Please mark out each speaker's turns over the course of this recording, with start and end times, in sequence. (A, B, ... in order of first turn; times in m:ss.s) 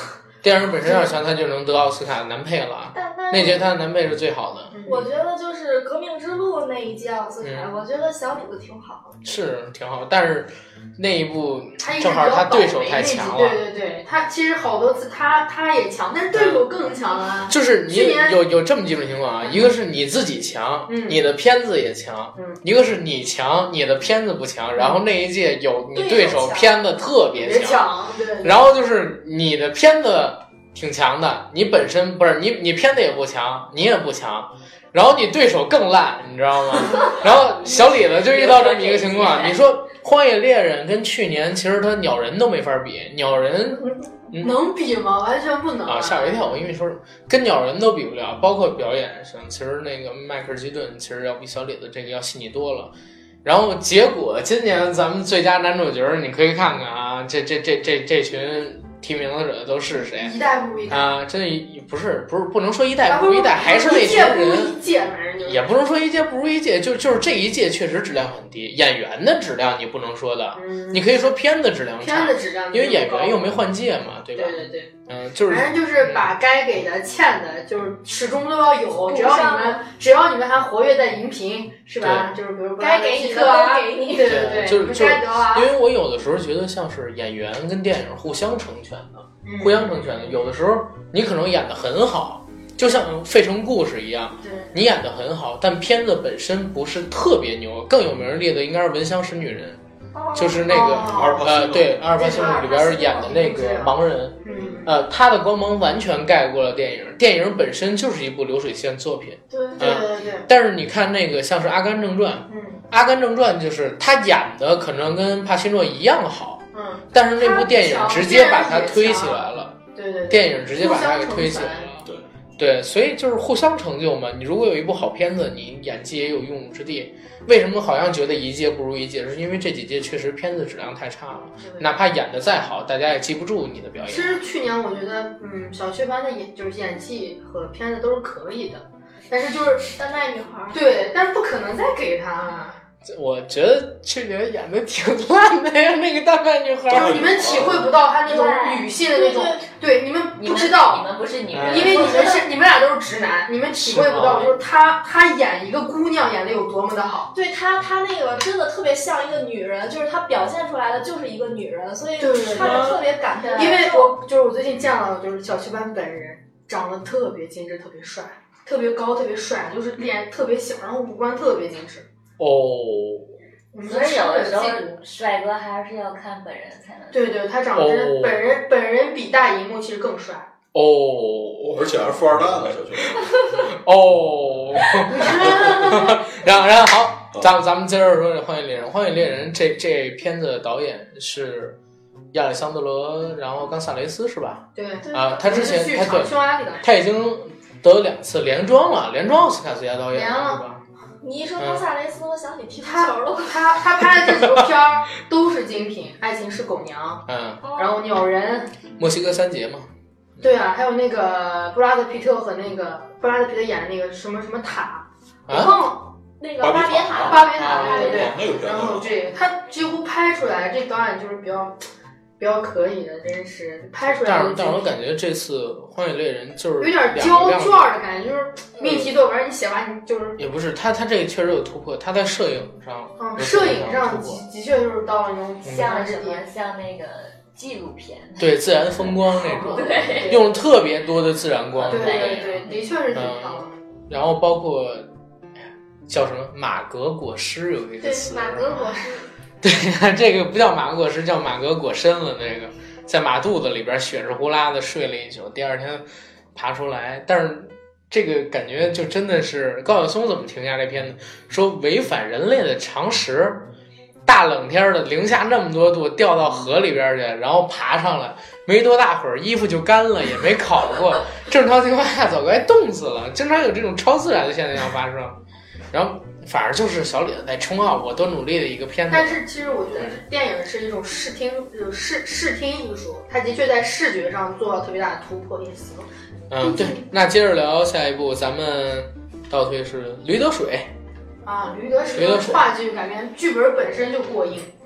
0:00.4-0:04.8 A
0:02.9-0:03.7 B
0:04.7-0:05.1 C
0:04.9-0:09.2 B
0:07.4-0:07.7 A
0:09.2-0:13.6 A
0:11.8-0:18.4 C
0:16.3-0:16.6 A
0:17.5-0:44.6 A
0:19.4-0:19.7 C
0:20.9-0:21.2 C
0:25.9-0:26.8 B
0:27.4-0:28.6 C
0:37.0-0:39.6 D
0:43.8-0:46.6 C
0:45.8-0:52.9 A
0:53.4-1:00.4 A
1:00.2-1:01.1 C
1:00.9-1:04.8 A
1:03.0-1:05.6 C
1:05.4-1:16.3 A
1:10.6-1:11.3 C
1:12.0-1:13.6 C
1:14.3-1:14.9 C
1:15.5-1:25.7 C
1:19.0-1:19.8 B
1:22.0-1:22.3 A
1:22.8-1:24.5 B
1:24.2-1:39.8 A
1:29.4-1:30.4 C
1:34.4-1:34.7 C
1:40.1-1:41.0 B
1:40.3-1:59.8 A
1:40.7-1:41.6 C
1:41.0-1:42.0 E
1:42.2-1:43.4 B
1:42.2-1:44.9 C
1:44.5-1:44.8 B
1:49.5-1:49.8 B
1:49.8-1:50.5 C
1:52.5-1:52.8 C
1:56.7-2:01.9 C
2:00.3-2:14.4 A
2:11.6-2:11.9 C
2:14.1-2:19.9 C
2:19.9-2:20.9 B
2:20.7-2:22.8 C
2:23.0-2:27.4 A
2:26.9-2:27.9 E
2:26.9-2:31.1 C
2:28.2-2:28.9 D
2:29.1-2:29.6 B
2:30.4-2:32.5 D
2:31.5-2:32.2 A
2:31.7-2:37.3 C
2:33.8-2:34.6 A
2:37.3-2:44.2 B
2:42.2-2:52.0 C
2:42.6-2:43.0 A
2:52.4-2:53.3 A
2:53.7-2:55.0 C
2:53.8-2:57.4 D
2:57.1-3:00.5 C
2:57.7-2:58.4 A
3:00.7-3:01.8 A
3:01.6-3:03.3 E
3:03.6-3:11.8 A
3:05.1-3:06.2 C
3:12.3-3:20.8 A
3:14.7-3:16.8 C
3:15.0-3:15.7 B
3:20.1-3:20.6 C
3:21.2-3:23.8 B
3:21.6-3:21.8 A
3:22.8-3:27.2 C
3:24.3-3:24.6 A
3:27.3-3:27.6 A
3:27.6-3:28.2 B
3:27.8-3:28.7 C
3:29.0-3:29.9 A
3:30.4-3:36.1 C
3:35.5-3:35.7 A
3:36.4-3:38.4 B
3:36.6-3:39.1 E
3:37.2-3:41.8 C
3:37.6-3:38.4 A
3:42.4-3:44.9 C
3:44.0-3:47.9 A
3:46.8-3:50.4 C
3:48.8-3:49.1 A
3:50.4-3:54.4 A
3:53.2-3:56.4 C
3:55.7-4:00.4 D
3:58.4-4:02.6 A
3:59.6-4:00.5 C
4:01.8-4:03.0 D
4:01.9-4:03.8 C
4:03.1-4:05.1 A
4:06.1-4:08.8 A
4:08.0-4:09.3 B
4:08.7-4:09.0 C
4:09.6-4:23.7 A
4:24.2-4:35.4 A
4:35.9-4:39.4 A
4:39.1-4:46.1 C
4:39.9-4:40.2 A
4:46.5-4:50.9 A
4:46.6-4:47.0 C
4:51.4-4:54.7 C
4:52.1-4:52.7 A